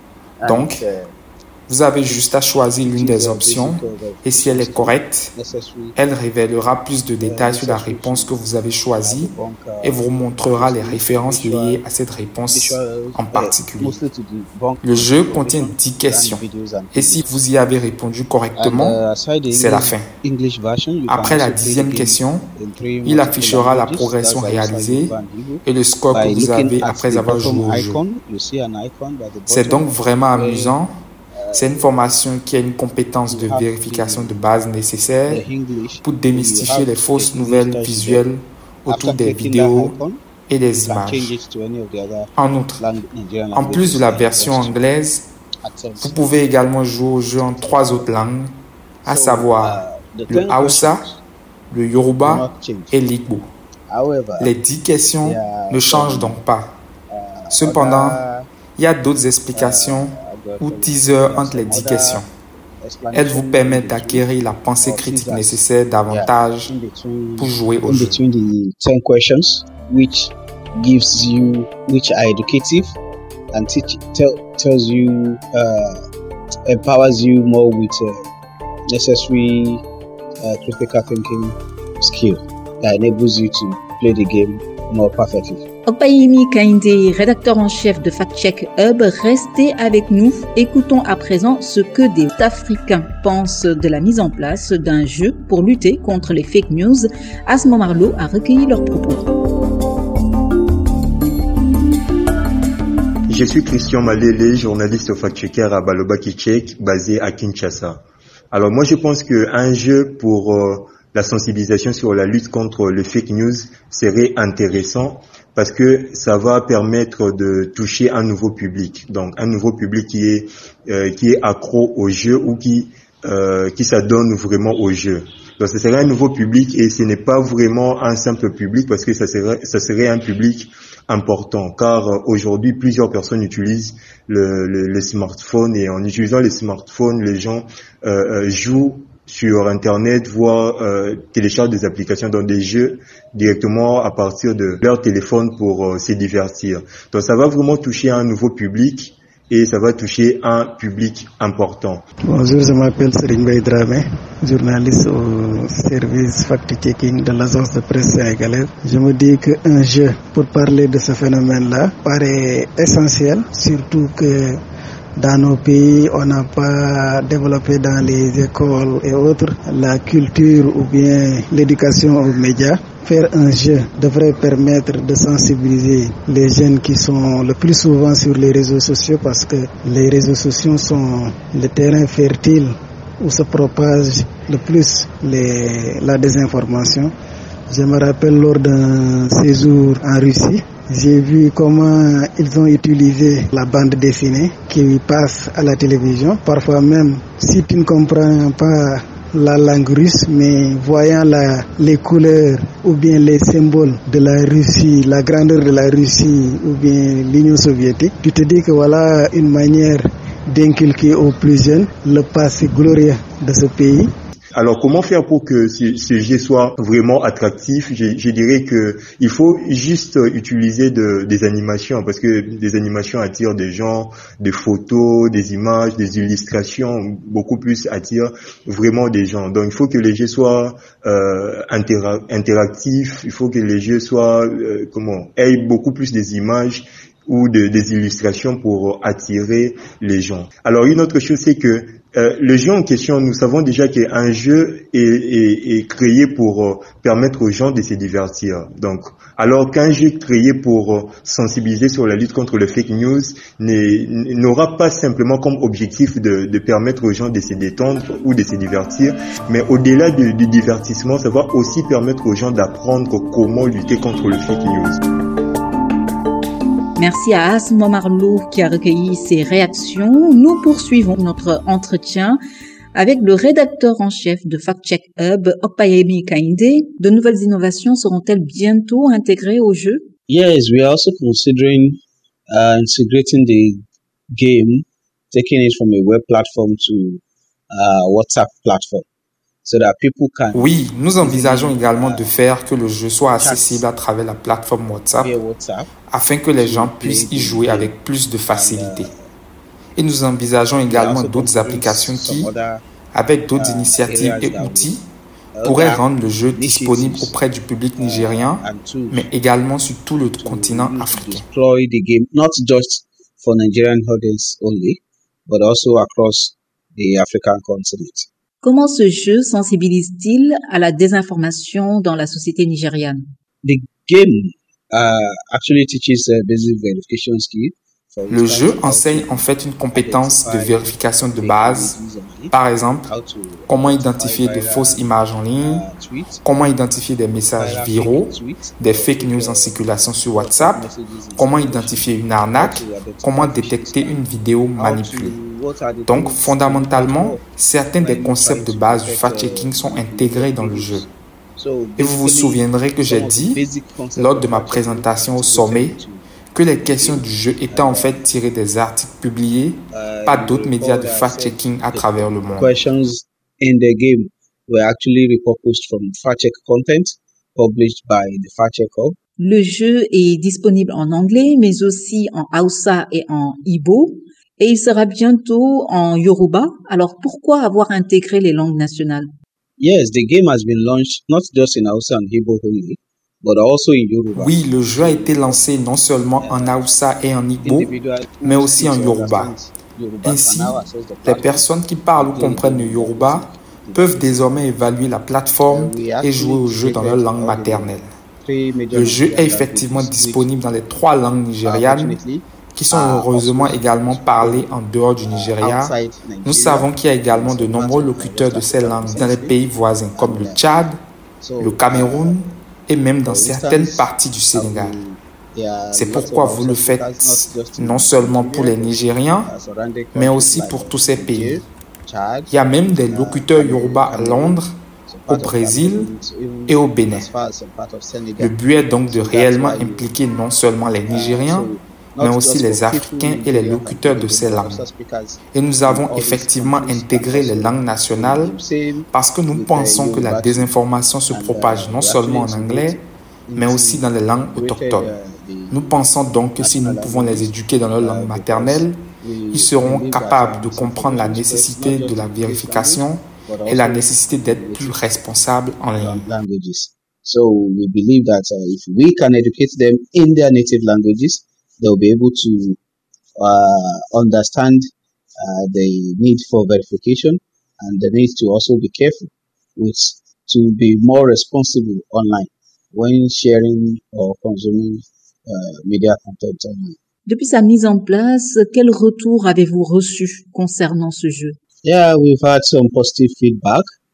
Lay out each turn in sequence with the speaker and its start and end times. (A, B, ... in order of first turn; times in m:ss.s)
0:00.4-0:01.2 A
0:00.4-0:00.8 B
0:01.7-0:05.3 B
0:02.9-0:06.0 A
0:06.0-0:09.3 B
0:07.2-0:08.4 A
0:09.0-0:11.8 A
0:09.8-0:14.0 B
0:12.5-0:17.3 A
0:14.8-0:16.4 B
0:16.9-0:19.0 B
0:18.6-0:30.8 A
0:19.5-0:20.1 B
0:21.1-0:22.4 B
0:23.1-0:28.0 B
0:29.5-0:30.9 B
0:31.3-0:32.1 A
0:31.5-0:35.4 B
0:33.3-0:34.4 A
0:35.0-0:38.2 A
0:36.0-0:40.0 B
0:38.9-0:40.2 A
0:40.5-0:41.3 B
0:40.8-0:44.8 A
0:42.4-0:42.8 B
0:43.5-0:45.3 B
0:45.6-0:46.5 A
0:46.0-0:48.5 B
0:47.4-0:48.1 A
0:49.0-0:51.0 B
0:49.1-0:51.2 A
0:51.7-0:53.5 B
0:52.2-0:53.0 A
0:53.9-0:54.6 A
0:54.4-0:56.8 B
0:55.2-0:56.4 A
0:57.1-0:58.5 A
0:57.5-0:58.2 B
0:58.8-1:02.3 B
0:59.5-1:02.2 A
1:02.8-1:13.0 A
1:03.1-1:06.7 B
1:07.4-1:08.2 B
1:13.5-1:16.0 A
1:16.7-1:18.2 A
1:18.9-1:19.8 A
1:20.4-1:25.6 A
1:25.9-1:39.2 C
1:43.3-1:48.0 D
1:48.5-2:32.0 D
2:32.3-2:44.6 E
2:45.2-3:07.1 E
3:07.7-3:34.1 E
3:34.6-4:25.0 D
4:27.0-4:32.4 C
4:32.9-4:40.0 C
4:40.3-4:42.0 A
4:42.5-4:49.0 A
4:49.6-4:52.4 A
4:50.5-4:55.3 B
4:53.3-4:53.9 A
4:55.2-4:55.9 A
4:56.1-4:59.1 B
4:56.6-4:58.0 A
4:58.5-4:59.1 A
5:00.0-5:02.5 B
5:00.9-5:02.8 A
5:03.1-5:05.0 B
5:03.6-5:04.9 A
5:05.6-5:07.4 A
5:05.6-5:11.4 B
5:08.0-5:09.3 A
5:10.4-5:18.3 A
5:18.6-5:23.2 C
5:23.6-5:32.6 A
5:28.3-5:31.9 B
5:32.5-5:33.1 B
5:33.1-5:35.1 A
5:33.7-5:35.8 B
5:35.6-5:36.4 A
5:36.4-5:40.8 B
5:37.6-5:44.2 A
5:41.4-5:45.4 B
5:44.8-5:47.4 A
5:46.1-5:51.0 B
5:48.0-5:58.3 A
5:52.0-5:53.6 B
5:54.2-5:56.0 B
5:56.5-6:02.8 B
5:59.9-6:09.2 A
6:09.4-6:19.3 C
6:19.8-6:25.7 A
6:24.4-6:27.9 B
6:26.4-6:27.0 A
6:27.6-6:34.8 A
6:28.4-6:29.5 B
6:30.2-6:38.1 B
6:35.6-6:40.5 A
6:38.9-6:42.2 B
6:41.6-6:44.7 A
6:42.8-6:45.9 B
6:45.3-6:49.6 A
6:46.4-6:51.0 B
6:50.2-6:50.6 A
6:51.4-6:52.4 A
6:51.6-6:55.0 B
6:53.2-7:08.6 A
6:55.9-6:59.5 B
7:00.2-7:01.6 B
7:02.5-7:04.8 B
7:05.3-7:06.1 B
7:06.7-7:07.3 B
7:08.4-7:11.7 B
7:09.1-7:10.2 A
7:11.1-7:25.9 A
7:12.2-7:14.8 B
7:15.5-7:18.5 B
7:19.1-7:23.0 B
7:23.6-7:25.1 B
7:25.7-7:29.0 B
7:26.6-7:35.0 A
7:29.5-7:36.2 B
7:36.0-7:42.8 A
7:43.4-7:44.9 A
7:45.4-7:57.0 A
7:57.3-8:01.6 C
8:01.8-8:03.8 A